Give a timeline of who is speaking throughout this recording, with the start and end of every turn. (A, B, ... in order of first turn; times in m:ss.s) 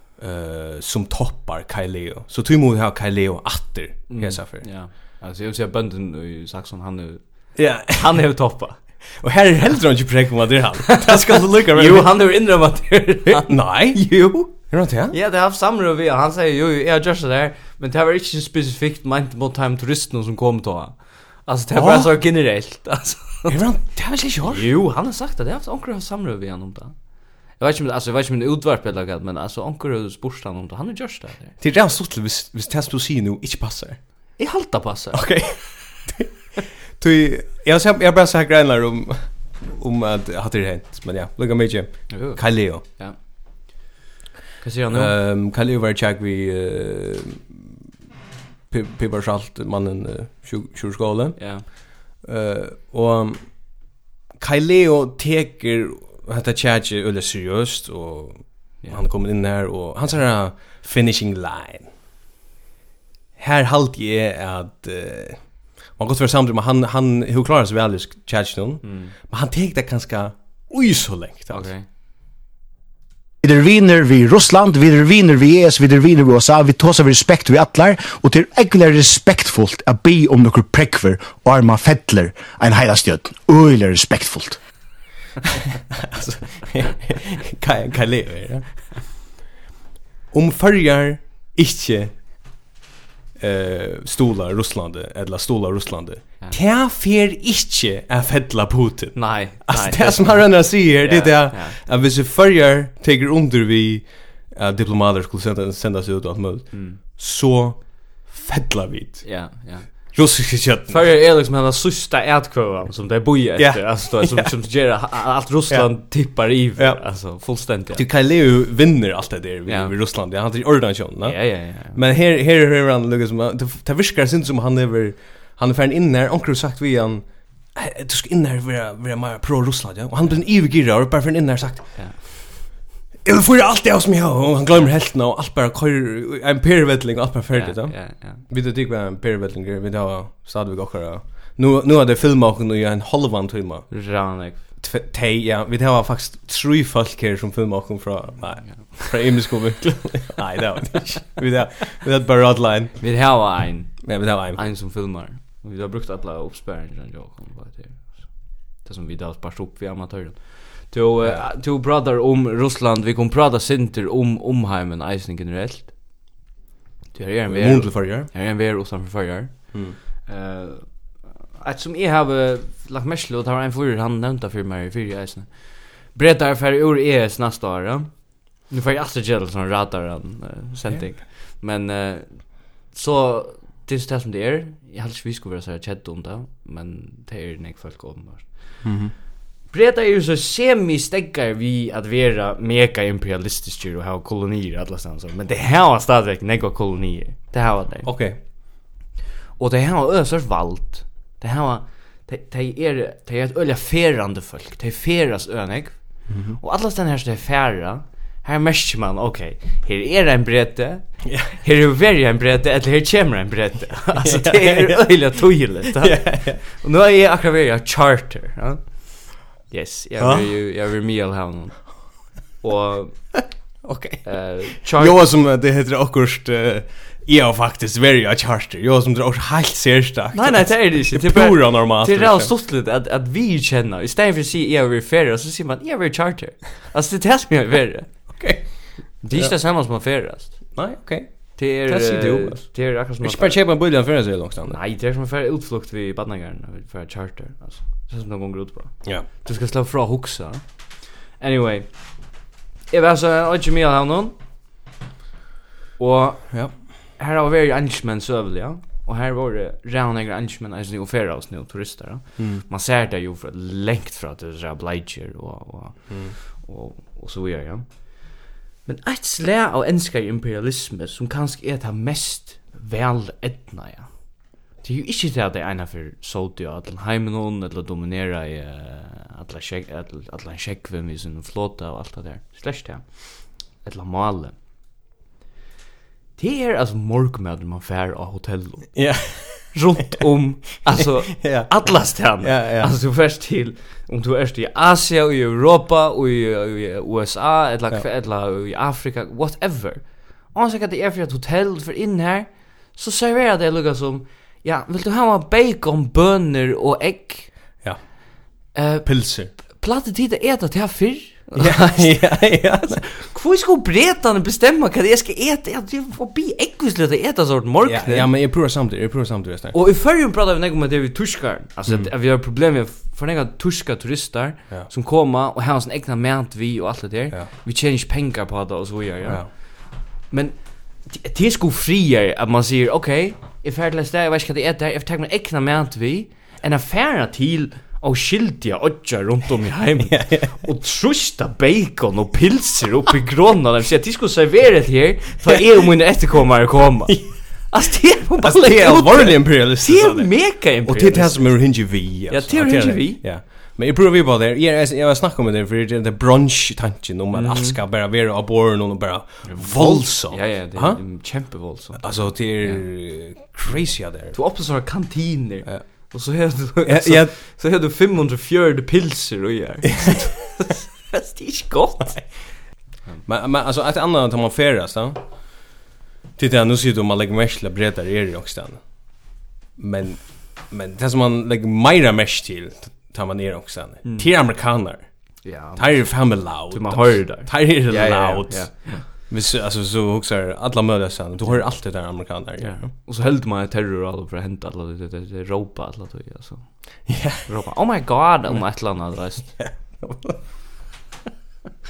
0:00.2-0:04.7 A
0:04.1-0:08.8 B
0:07.5-0:08.2 A
0:09.2-0:12.1 A
0:10.9-0:23.6 B
0:13.3-0:15.2 A
0:21.7-0:22.1 A
0:23.5-0:24.7 A
0:24.4-0:27.0 B
0:27.5-0:31.5 B
0:31.6-0:34.0 A
0:34.4-0:35.8 B
0:35.1-0:36.3 A
0:37.0-0:42.8 A
0:42.1-0:43.2 B
0:44.6-0:45.2 B
0:44.9-0:47.4 A
0:48.7-0:53.9 A
0:51.4-0:51.6 B
0:54.4-1:01.9 A
1:03.4-1:11.7 A
1:08.8-1:09.1 B
1:11.5-1:11.8 B
1:13.4-1:24.6 C
1:26.0-1:29.0 A
1:30.3-1:32.1 A
1:33.4-1:49.4 A
1:39.2-1:41.8 B
1:46.7-1:47.0 B
1:49.2-1:50.1 B
1:50.1-1:51.1 A
1:50.9-1:58.0 B
1:53.6-1:54.5 A
1:55.7-1:57.0 A
1:57.9-2:12.4 A
1:59.7-1:59.9 B
2:01.2-2:02.0 B
2:13.2-2:23.9 A
2:17.5-2:18.4 B
2:23.9-2:24.6 B
2:24.8-2:33.1 A
2:28.7-2:29.0 B
2:33.0-2:45.9 B
2:34.0-2:34.6 A
2:47.1-3:08.9 B
2:47.5-2:48.3 A
2:49.7-2:50.0 A
3:08.8-3:09.1 A
3:09.7-3:18.1 B
3:18.0-3:18.4 A
3:19.6-3:42.1 B
3:26.3-3:26.6 A
3:31.3-3:31.5 A
3:34.2-3:36.6 A
3:40.2-3:40.5 A
3:42.6-3:43.3 B
3:43.8-3:44.3 A
3:44.2-3:45.2 B
3:44.8-3:52.5 A
3:50.3-3:58.1 B
3:58.3-3:59.6 A
3:59.2-4:00.6 B
4:00.7-4:04.8 A
4:01.6-4:03.6 B
4:04.7-4:10.6 B
4:11.4-4:11.9 B
4:12.9-4:14.3 B
4:16.0-4:44.5 B
4:22.4-4:22.6 A
4:26.1-4:26.3 A
4:46.4-5:07.5 B
4:48.9-4:49.8 A
4:51.0-4:52.9 A
5:08.7-5:18.3 B
5:09.0-5:09.5 A
5:11.6-5:13.0 A
5:17.8-5:19.7 A
5:19.7-5:29.5 B
5:30.3-5:53.2 B
5:40.1-5:40.6 A
5:47.1-5:47.3 A
5:48.4-6:01.0 A
5:57.3-5:57.8 B
5:59.4-6:02.8 B
6:02.0-6:04.4 A
6:04.3-6:12.5 B
6:06.8-6:07.4 A
6:13.2-6:15.2 A
6:16.4-6:18.9 A
6:19.8-6:32.9 A
6:24.0-6:24.3 B
6:25.4-6:29.1 B
6:31.4-6:31.7 B
6:32.6-6:39.6 B
6:37.1-6:37.5 A
6:39.3-6:40.4 A